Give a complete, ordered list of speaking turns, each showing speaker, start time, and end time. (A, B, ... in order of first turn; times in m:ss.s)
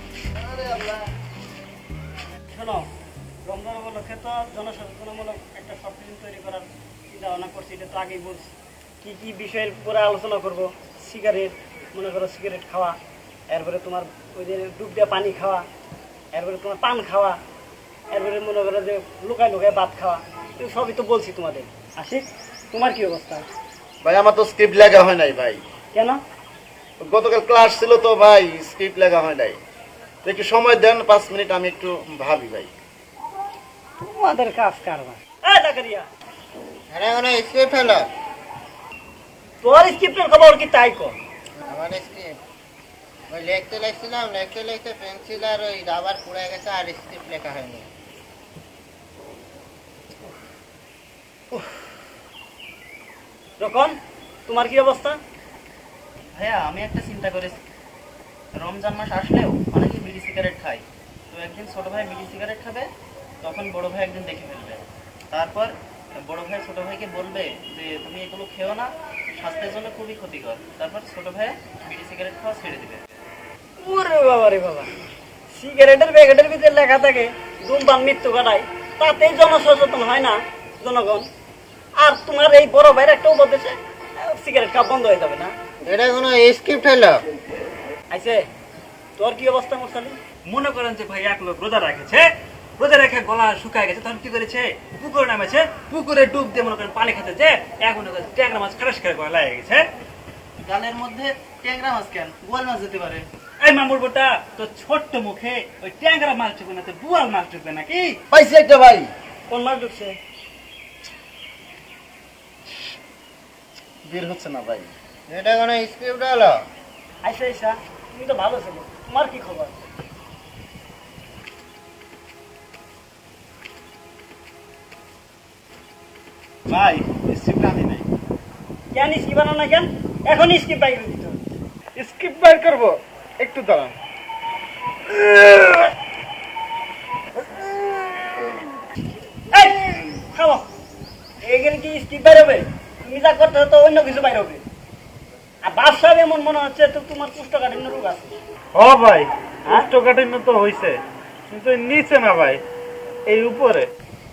0:02.5-0:02.9 A
0:03.4-0:13.0 A
0:13.5-0:15.6 A
0:16.3-0:17.4 A
0:18.1-0:23.4 A
0:24.0-0:25.6 B
0:25.9-0:26.2 A
0:27.0-0:29.6 B
0:30.2-0:32.7 B
0:34.0-0:36.1 A
0:36.9-0:38.1 C
0:39.6-0:41.2 A
0:41.6-0:42.4 C
0:43.3-0:47.9 C
0:51.5-0:51.8 A
0:53.6-0:55.2 A
0:56.3-0:57.6 D
0:58.5-1:02.9 D
1:03.4-1:13.0 D
1:13.8-1:14.9 A
1:15.5-1:21.3 A
1:22.0-1:25.5 A
1:25.8-1:27.2 C
1:28.1-1:28.5 A
1:29.2-1:30.2 A
1:30.4-1:39.9 E
1:40.6-1:43.2 D
1:43.6-1:48.2 E
1:48.3-1:49.1 B
1:49.5-1:50.2 A
1:54.0-1:54.9 B
1:55.3-1:56.6 C
1:57.2-1:59.8 A
2:06.7-2:08.0 E
2:08.9-2:11.4 A
2:12.0-2:13.9 E
2:12.0-2:12.8 B
2:19.5-2:20.6 A
2:21.4-2:24.6 A
2:25.6-2:28.4 A
2:28.7-2:32.6 E
2:33.3-2:33.9 E